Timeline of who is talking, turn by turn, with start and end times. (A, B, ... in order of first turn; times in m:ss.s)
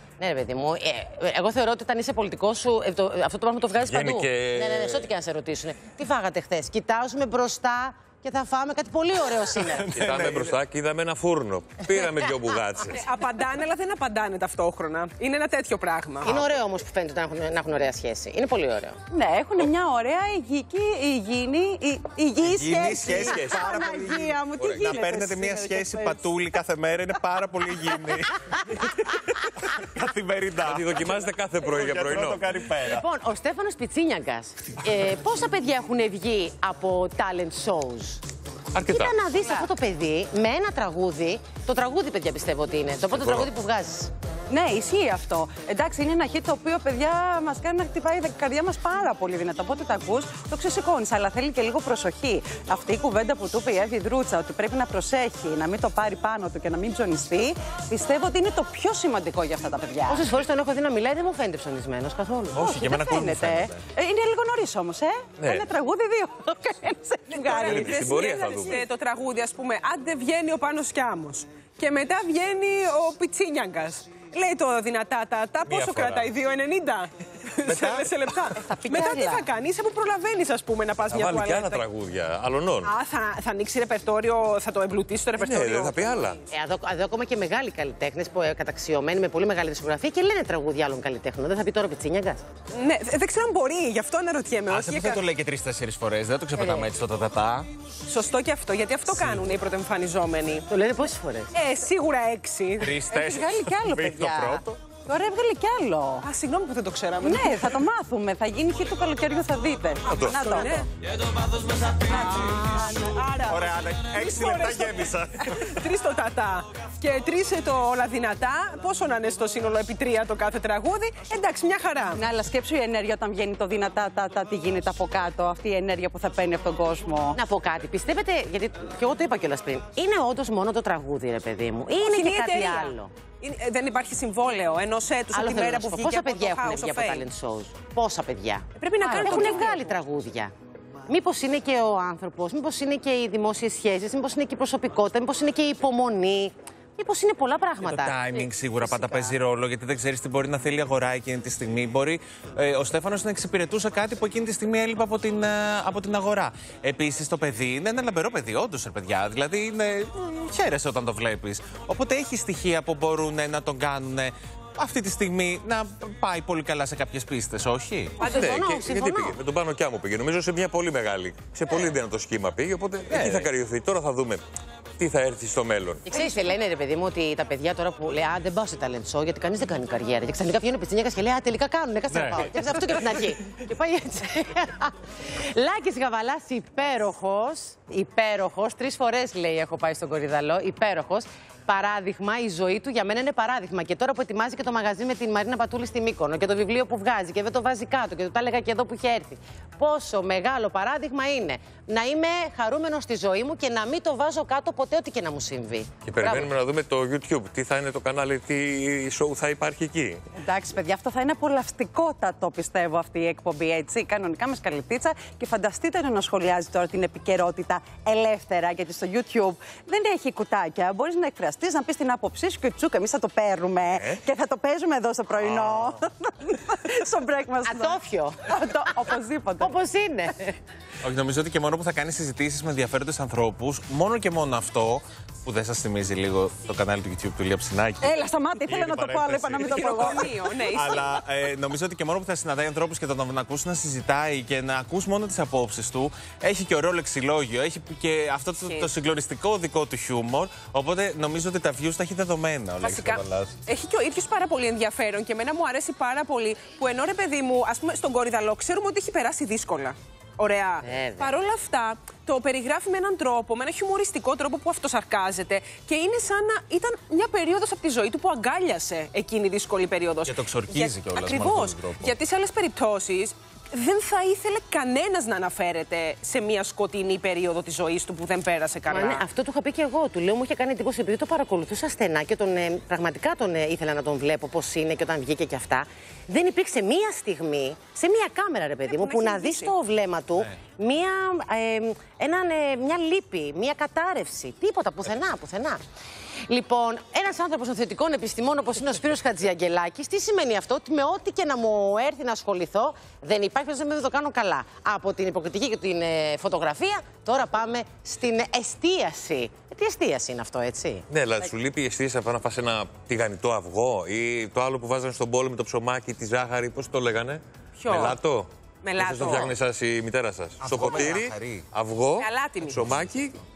0:00.2-0:09.9 A
0:03.8-0:05.1 B
0:09.6-0:10.5 C
0:09.9-0:13.0 B
0:12.9-0:16.4 D
0:16.2-0:19.0 A
0:19.1-0:26.2 E
0:22.4-0:28.3 C
0:23.2-0:23.7 B
0:24.6-0:24.9 B
0:28.8-0:29.3 C
0:29.9-0:33.0 C
0:30.6-0:32.4 B
0:32.8-0:38.2 A
0:38.7-0:39.2 B
0:38.8-0:44.1 A
0:43.1-0:43.5 B
0:44.5-1:00.2 E
1:00.0-1:02.8 A
1:02.5-1:03.8 C
1:02.6-1:08.3 E
1:05.4-1:05.6 B
1:07.3-1:21.8 D
1:07.4-1:08.8 B
1:15.7-1:16.3 B
1:17.7-1:18.1 B
1:18.6-1:19.4 E
1:21.1-1:22.9 B
1:22.8-1:26.4 D
1:25.4-1:26.4 B
1:26.5-1:32.4 A
1:32.7-1:35.2 D
1:34.7-1:37.7 C
1:38.1-1:40.6 D
1:39.1-1:39.4 C
1:40.7-1:41.5 A
1:41.5-1:43.4 D
1:43.1-1:46.2 E
1:44.0-1:44.3 C
1:44.2-1:44.6 A
1:46.2-1:47.7 D
1:47.2-1:50.8 E
1:50.1-1:50.6 B
1:50.3-1:50.8 D
1:52.1-2:02.2 D
1:53.7-1:55.2 C
2:02.1-2:07.4 E
2:07.3-2:13.1 A
2:12.0-2:17.2 D
2:15.3-2:20.5 A
2:18.8-2:19.9 D
2:21.1-2:28.1 A
2:27.8-2:48.2 C
2:28.9-2:29.3 A
2:48.2-2:48.7 D
2:48.2-2:54.4 B
2:48.2-2:49.4 A
2:55.0-2:56.0 B
2:56.0-3:26.5 A
3:26.0-3:30.2 B
3:30.4-3:49.7 E
3:47.6-3:50.5 A
3:51.0-3:58.1 C
3:58.0-4:00.3 E
3:58.7-4:13.5 C
3:59.6-4:01.2 D
4:12.8-4:39.2 D
4:20.8-4:21.3 A
4:30.3-4:32.1 C
4:38.9-4:55.8 A
4:48.8-4:49.7 D
4:56.5-5:11.0 A
5:11.1-5:23.4 B
5:17.8-5:18.2 D
5:18.8-5:19.5 D
5:20.6-5:21.6 C
5:22.2-5:22.8 D